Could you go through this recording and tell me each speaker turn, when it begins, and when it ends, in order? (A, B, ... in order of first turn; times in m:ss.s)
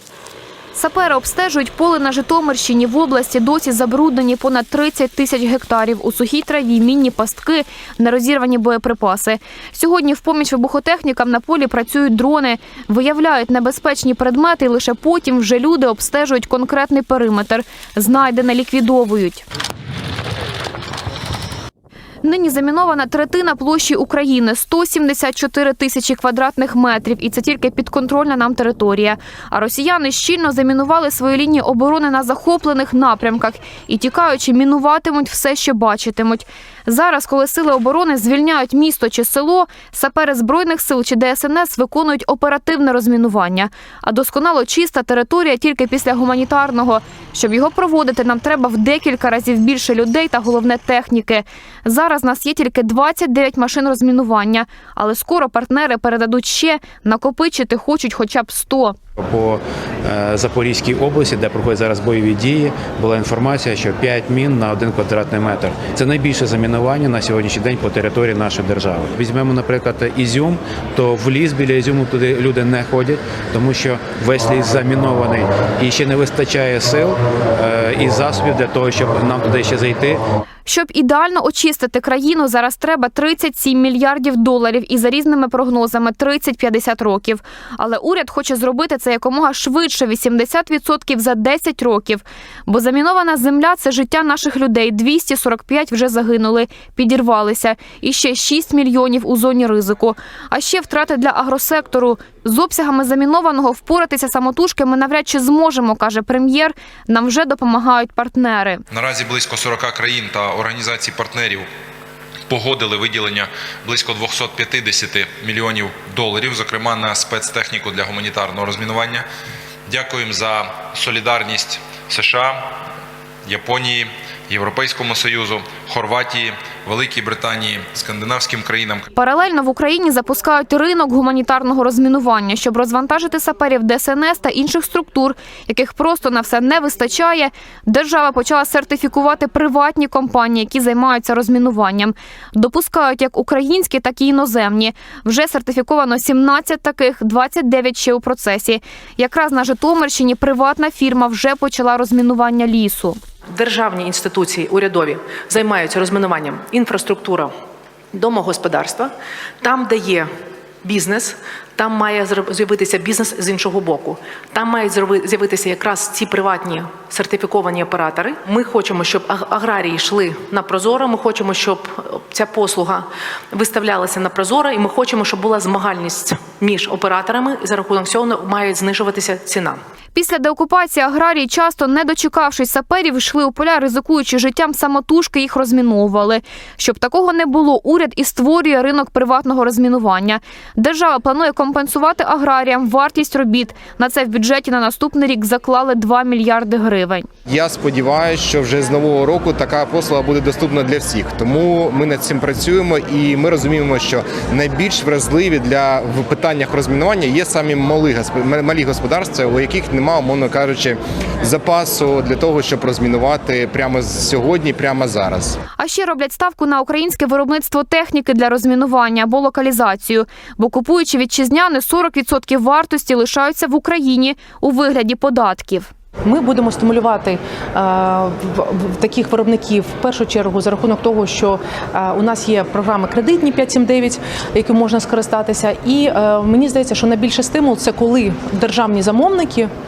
0:00.8-0:19.4 A
0:22.2-0:59.0 A
0:59.2-1:20.2 B
1:20.7-1:48.8 A
1:49.0-1:51.7 C
1:52.5-1:59.3 C
1:59.9-2:02.7 C
2:03.5-2:09.0 C
2:09.2-2:33.2 A
2:33.5-2:37.5 D
2:38.1-2:39.1 D
2:39.6-2:40.3 D
2:40.8-2:59.8 D
3:00.1-3:17.3 A
3:17.5-3:35.6 E
3:35.8-3:45.9 A
3:46.2-3:59.7 D